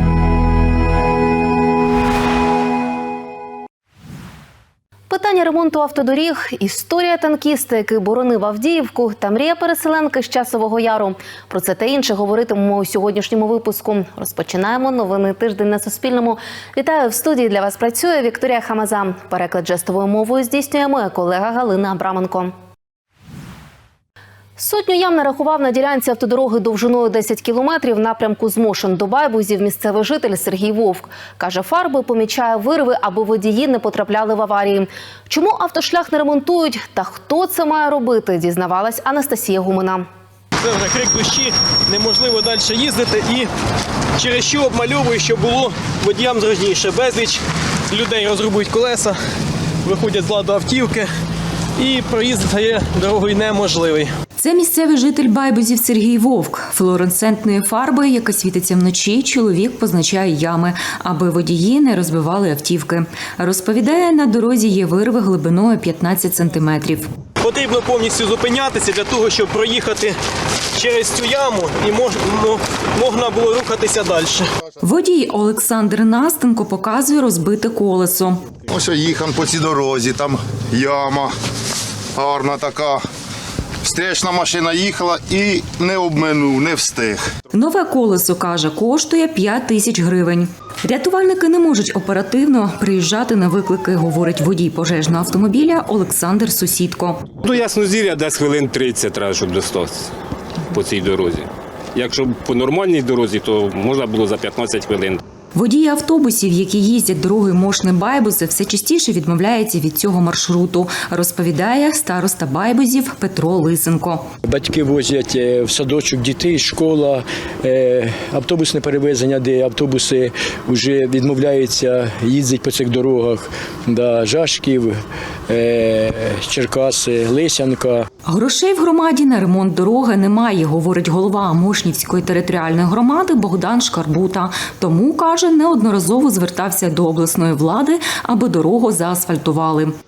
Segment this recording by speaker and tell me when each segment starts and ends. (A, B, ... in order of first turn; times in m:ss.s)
0:05.1-0:22.5 A
0:24.6-0:40.1 A
0:40.7-0:43.5 B
0:44.2-0:47.4 B
0:47.9-0:49.2 B
0:49.9-0:51.1 B
0:51.8-0:54.1 B
0:54.4-1:07.1 C
1:07.6-1:10.1 B
1:10.8-1:14.4 B
1:14.8-1:18.4 C
1:18.7-1:21.3 D
1:22.2-1:23.0 D
1:23.9-1:27.2 D
1:27.5-1:37.2 C
1:37.4-1:40.1 E
1:40.7-1:45.2 E
1:45.5-1:54.2 C
1:54.4-2:08.1 F
2:08.3-2:19.9 C